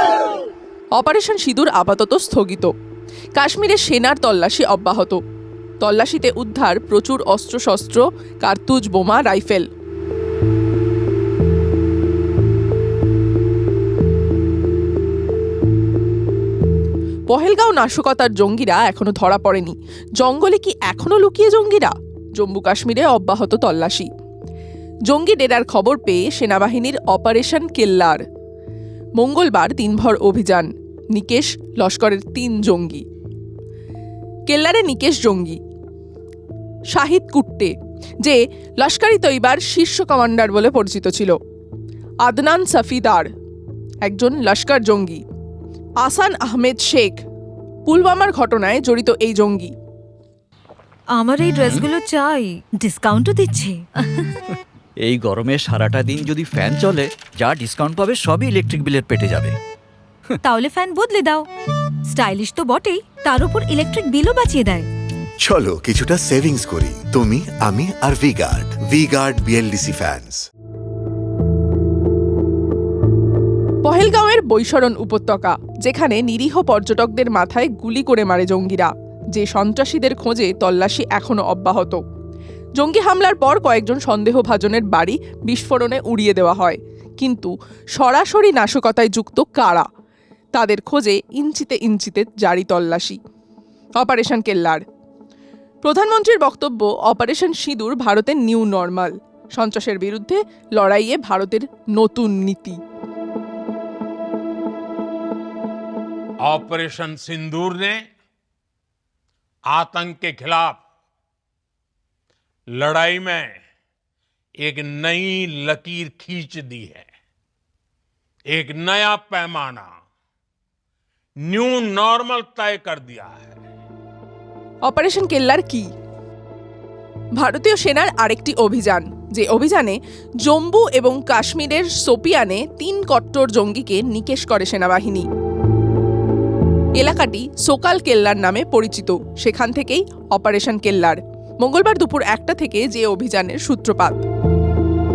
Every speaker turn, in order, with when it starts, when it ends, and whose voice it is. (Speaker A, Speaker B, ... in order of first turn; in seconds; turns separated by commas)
Speaker A: 1.0-2.7, Speaker A: 3.4-5.2, Speaker A: 5.8-9.7, Speaker A: 17.3-24.1, Speaker A: 25.1-28.2, Speaker A: 29.2-33.0, Speaker A: 34.5-35.6, Speaker A: 36.9-41.4, Speaker A: 42.2-43.3, Speaker A: 44.0-45.2, Speaker A: 46.0-47.2, Speaker A: 47.9-49.7, Speaker B: 51.1-54.3, Speaker C: 54.5-59.5, Speaker B: 60.4-61.5, Speaker B: 62.1-64.9, Speaker D: 65.4-70.4, Speaker A: 73.8-82.0, Speaker A: 82.8-89.9, Speaker A: 90.5-93.2, Speaker A: 94.0-94.8, Speaker A: 95.8-102.8, Speaker E: 106.5-108.0, Speaker E: 109.7-110.8, Speaker E: 112.8-113.6, Speaker E: 114.6-117.1, Speaker E: 118.5-119.9, Speaker E: 121.5-123.5, Speaker A: 124.9-125.9, Speaker A: 127.3-135.3, Speaker A: 136.9-144.2